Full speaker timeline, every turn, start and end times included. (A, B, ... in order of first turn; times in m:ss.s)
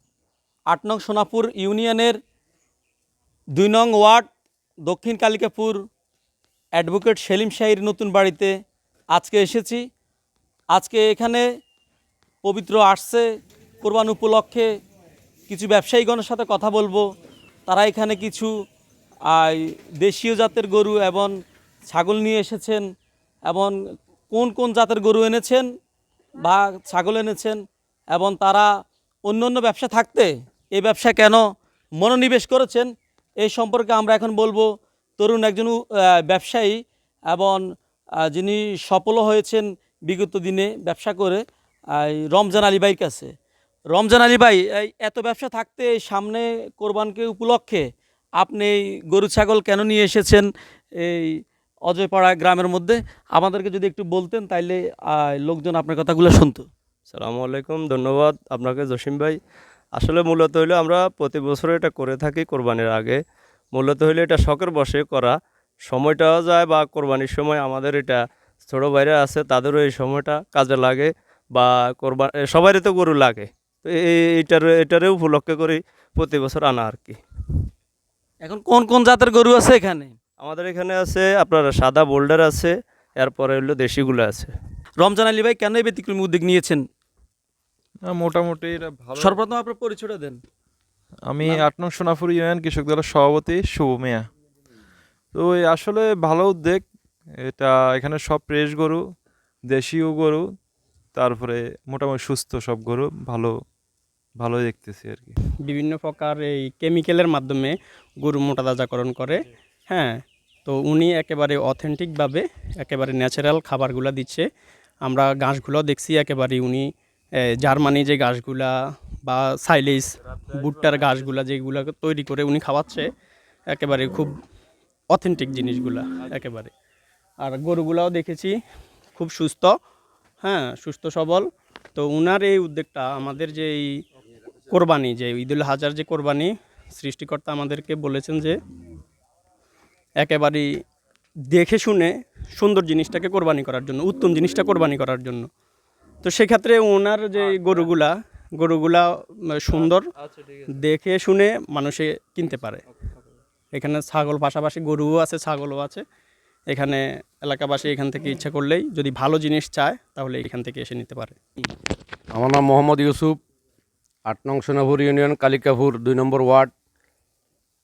0:00.7-0:02.2 A
0:03.6-0:04.2 A
0:04.8-0:05.8 A
0:06.7-0:08.5 A
0:09.1-0:09.8 A
0:10.7-0:11.4 A
0:12.4-0:13.3 A
0:13.8-0:14.7 A
0:15.5-0:17.0 A
0:17.7-0:18.5 A
0:19.3-0:21.3 A
0:21.9-0:22.8 A
0:23.5-0:23.8 A
0:24.3-0:25.7 A
0:26.4-0:27.6 A
0:28.1-0:28.7 A
0:29.2-0:31.4 A
0:32.0-0:32.9 A
0:33.4-0:34.7 A
0:35.2-0:36.8 A
0:37.3-0:37.6 A
0:38.2-0:41.4 A
0:41.9-0:43.3 A
0:43.9-0:47.8 A
0:48.4-0:50.5 A
0:51.0-0:56.6 A
0:57.1-0:59.4 B
1:00.0-1:03.2 B
1:03.7-1:05.3 B
1:05.9-1:17.2 B
1:18.4-1:20.1 A
1:20.4-1:24.5 B
1:25.0-1:26.8 A
1:28.1-1:29.4 C
1:29.2-1:30.4 A
1:31.3-1:34.3 C
1:35.3-1:36.9 C
1:37.4-1:39.0 C
1:39.6-1:40.4 C
1:41.1-1:43.5 C
1:44.4-1:45.3 C
1:45.6-1:54.4 D
1:55.0-1:56.9 D
1:57.4-1:58.7 D
1:59.3-2:03.1 D
2:03.7-2:04.3 D
2:05.1-2:06.7 D
2:07.4-2:08.5 D
2:09.1-2:09.7 D
2:10.4-2:13.9 D
2:14.7-2:18.6 D
2:20.2-2:20.8 D
2:21.5-2:25.5 D
2:26.2-2:30.1 D
2:30.7-2:32.8 D
2:33.7-2:36.0 D
2:36.7-2:41.4 D
2:42.3-2:43.4 E
2:44.2-2:46.7 E